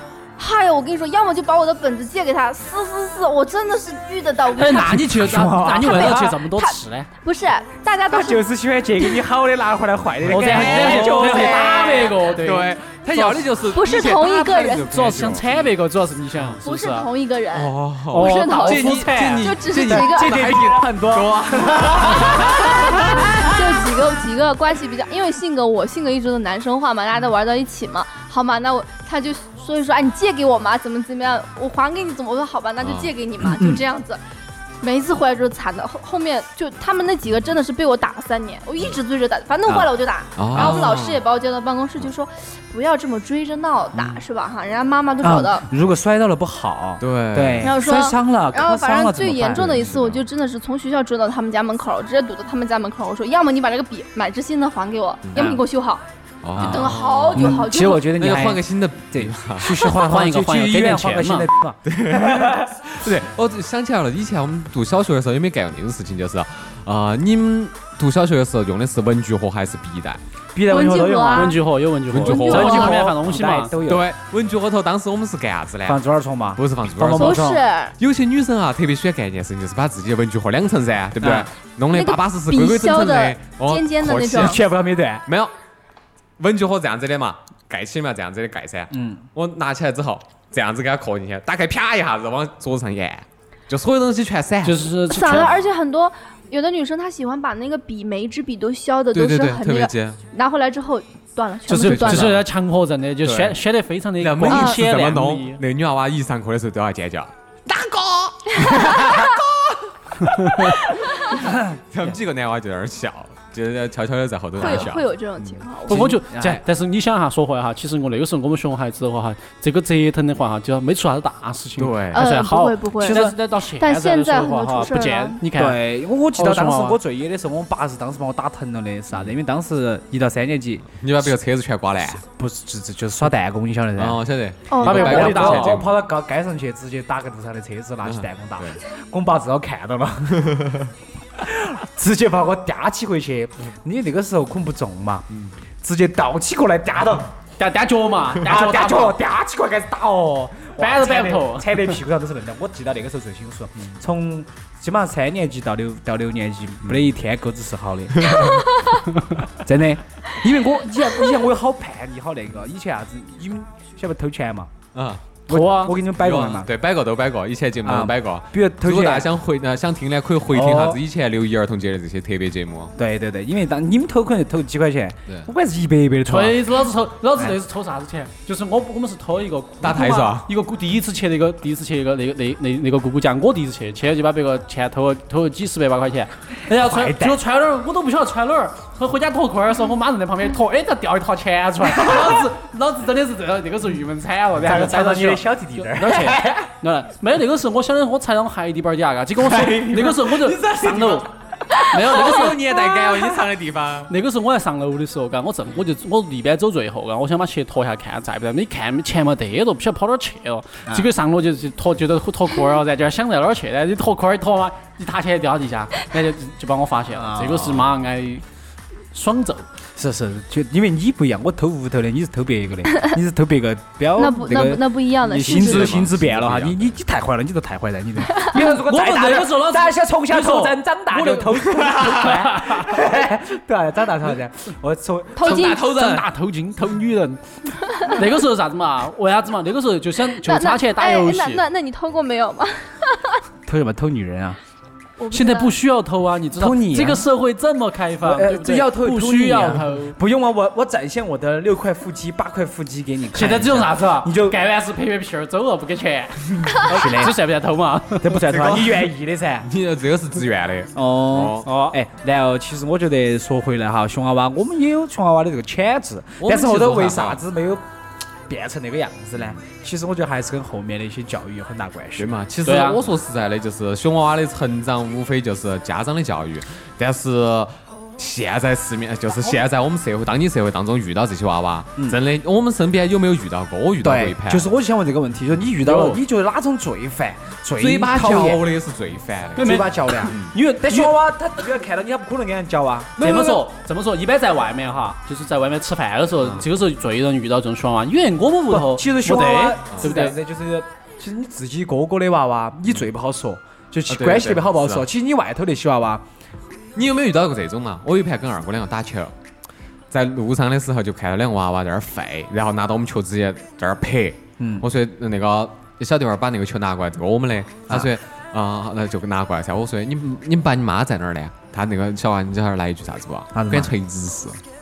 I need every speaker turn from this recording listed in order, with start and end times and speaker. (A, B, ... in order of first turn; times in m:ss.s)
0:00.4-0:08.4 A
0:04.5-0:07.1 B
0:04.8-0:06.4 C
0:08.1-0:12.2 C
0:10.2-0:13.4 B
0:10.3-0:11.6 D
0:11.0-0:12.1 A
0:12.3-0:15.5 D
0:13.7-0:14.9 A
0:14.9-0:17.1 B
0:16.6-0:20.4 A
0:17.5-0:22.8 D
0:18.1-0:19.5 B
0:19.5-0:23.4 C
0:22.0-0:34.2 A
0:32.8-0:33.1 D
0:33.4-0:33.8 C
0:34.8-0:45.6 A
0:40.4-0:41.2 D
0:45.2-0:49.9 C
0:47.0-0:47.7 D
0:47.6-0:56.0 A
0:49.6-0:50.2 D
0:55.2-0:55.6 D
0:56.4-0:59.8 D
0:56.5-0:58.1 A
0:56.6-1:02.8 C
0:59.9-1:01.5 B
1:01.9-1:10.2 D
1:10.5-1:11.6 C
1:10.7-1:11.6 A
1:11.3-1:13.7 B
1:12.1-1:13.1 D
1:12.2-1:12.9 A
1:12.2-1:14.1 C
1:13.8-1:16.0 D
1:15.8-1:17.6 C
1:16.6-1:24.6 D
1:17.2-1:17.9 A
1:21.2-1:21.5 C
1:21.9-1:24.6 A
1:24.3-1:25.2 C
1:25.2-1:25.5 D
1:26.4-1:35.7 D
1:28.9-1:29.2 C
1:34.6-1:35.5 B
1:35.1-1:42.4 A
1:39.1-1:40.2 D
1:41.7-1:45.6 B
1:41.8-1:42.4 D
1:43.2-1:43.6 D
1:44.2-1:56.6 D
1:44.5-1:44.8 A
1:48.6-1:49.3 A
1:51.3-1:51.7 C
1:54.6-1:56.1 A
1:55.9-2:07.0 B
1:55.9-1:56.6 C
2:01.8-2:02.2 D
2:02.1-2:05.4 A
2:03.0-2:03.4 C
2:05.5-2:11.3 C
2:11.0-2:12.2 D
2:12.1-2:14.2 C
2:14.0-2:15.9 D
2:14.7-2:15.6 A
2:14.8-2:15.8 B
2:14.8-2:20.8 C
2:18.0-2:18.8 D
2:20.4-2:20.8 D
2:21.4-2:25.3 C
2:25.8-2:27.3 C
2:27.6-2:29.2 B
2:28.4-2:38.5 C
2:30.8-2:32.0 B
2:38.2-2:38.6 D
2:39.4-2:44.7 C
2:44.9-2:45.3 D
2:45.5-2:46.0 B
2:45.5-2:46.7 C
2:46.1-2:52.9 D
2:47.8-2:49.3 C
2:50.5-2:51.0 C
2:53.0-2:56.6 C
2:56.3-3:22.8 B
2:59.8-3:00.5 D
3:06.7-3:07.4 C
3:12.0-3:12.4 C
3:14.6-3:16.7 C
3:19.5-3:21.3 D
3:19.6-3:20.2 C
3:21.9-3:24.1 D
3:24.1-3:38.4 B
3:37.1-3:37.7 C
3:37.6-3:37.8 D
3:39.1-3:39.6 B
3:40.0-3:55.7 C
3:44.2-3:46.0 A
3:45.4-3:46.9 D
3:48.3-3:48.6 A
3:48.5-3:52.9 B
3:51.9-3:52.3 D
3:55.4-3:55.8 A
3:55.4-3:56.3 D
3:55.5-4:01.6 B
4:00.4-4:03.4 A
4:03.6-4:04.6 C
4:05.2-4:05.7 A
4:05.3-4:10.2 B
4:06.6-4:07.2 C
4:08.2-4:14.6 C
4:13.3-4:18.4 B
4:16.8-4:17.4 C
4:18.2-4:19.7 C
4:18.4-4:19.1 D
4:19.6-4:21.7 D
4:20.9-4:27.8 C
4:26.4-4:27.4 D
4:28.5-4:32.3 C
4:32.2-4:44.6 D
4:32.6-4:33.0 B
4:44.0-4:48.7 C
4:45.9-4:46.2 D
4:47.8-4:50.5 D
4:49.6-4:51.2 B
4:49.6-4:53.6 C
4:53.2-5:00.3 B
4:58.7-5:06.2 C
5:04.1-5:05.0 D
5:06.9-5:09.3 D
5:10.1-5:24.6 D
5:14.6-5:14.8 C
5:23.5-5:23.9 C